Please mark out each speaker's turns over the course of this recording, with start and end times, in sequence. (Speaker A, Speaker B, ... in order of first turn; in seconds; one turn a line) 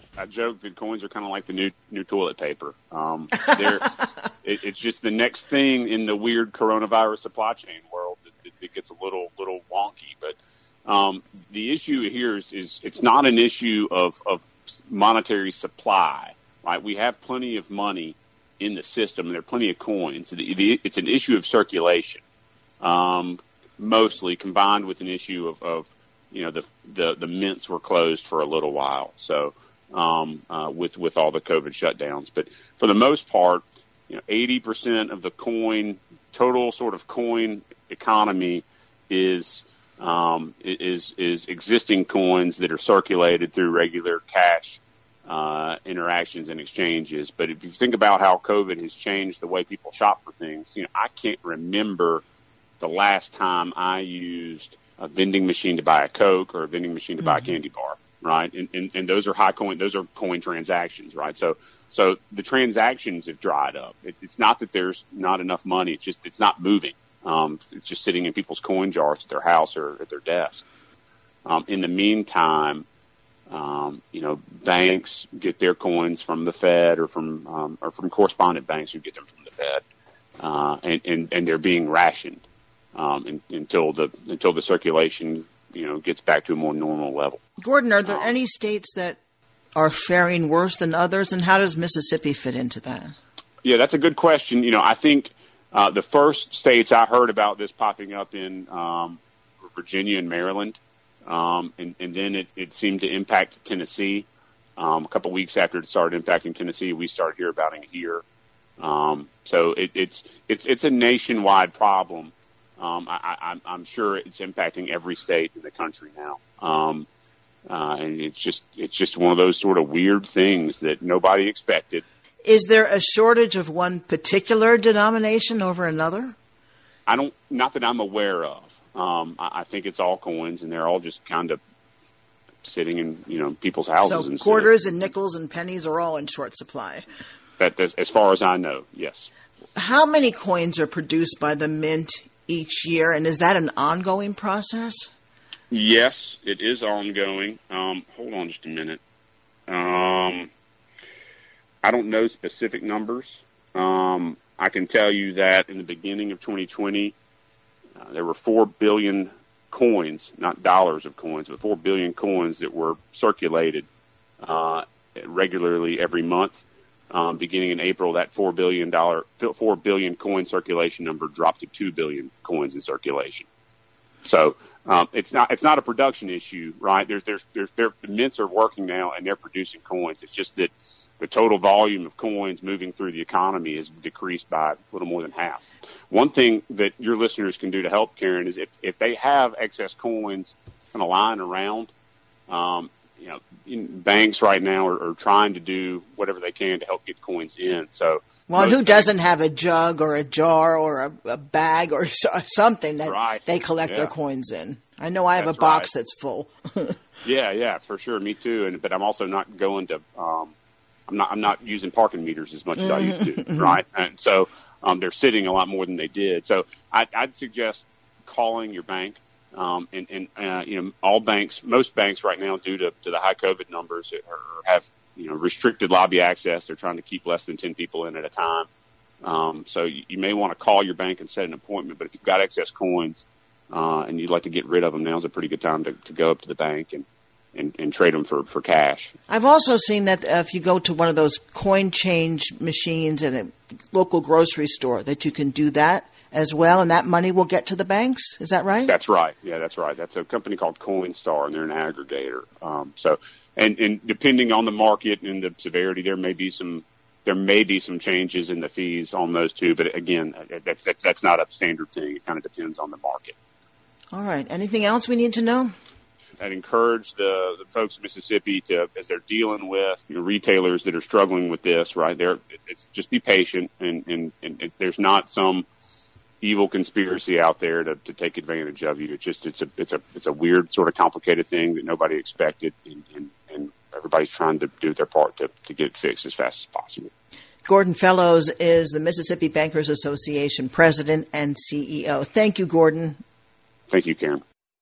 Speaker A: 0.2-22.2
Speaker A: 22.8-52.2
Speaker A: 52.8-70.6
Speaker A: 71.4-72.8
Speaker A: 73.5-79.8
Speaker A: 80.4-82.4
Speaker A: 82.9-87.4
Speaker B: 87.6-89.2
Speaker A: 88.1-88.3
Speaker B: 89.7-93.1
Speaker A: 93.6-108.2
Speaker A: 108.8-117.1
Speaker A: 117.7-122.0
Speaker B: 122.4-126.3
Speaker A: 127.1-131.6
Speaker A: 132.6-135.1
Speaker B: 134.0-137.0
Speaker A: 137.6-139.3
Speaker B: 139.8-145.1
Speaker A: 145.7-149.0
Speaker A: 149.7-150.5
Speaker A: 151.8-157.1
Speaker A: 158.0-163.9
Speaker A: 164.4-173.5
Speaker A: 174.2-191.9
Speaker A: 192.5-199.1
Speaker B: 198.5-207.0
Speaker A: 203.0-204.1
Speaker A: 205.3-205.9
Speaker A: 207.2-210.5
Speaker A: 211.1-228.7
Speaker B: 212.8-213.8
Speaker A: 229.2-239.1
Speaker B: 239.3-248.9
Speaker A: 248.9-263.3
Speaker B: 264.1-265.7
Speaker A: 266.4-275.6
Speaker A: 276.4-287.1
Speaker B: 287.6-293.2
Speaker A: 293.9-294.4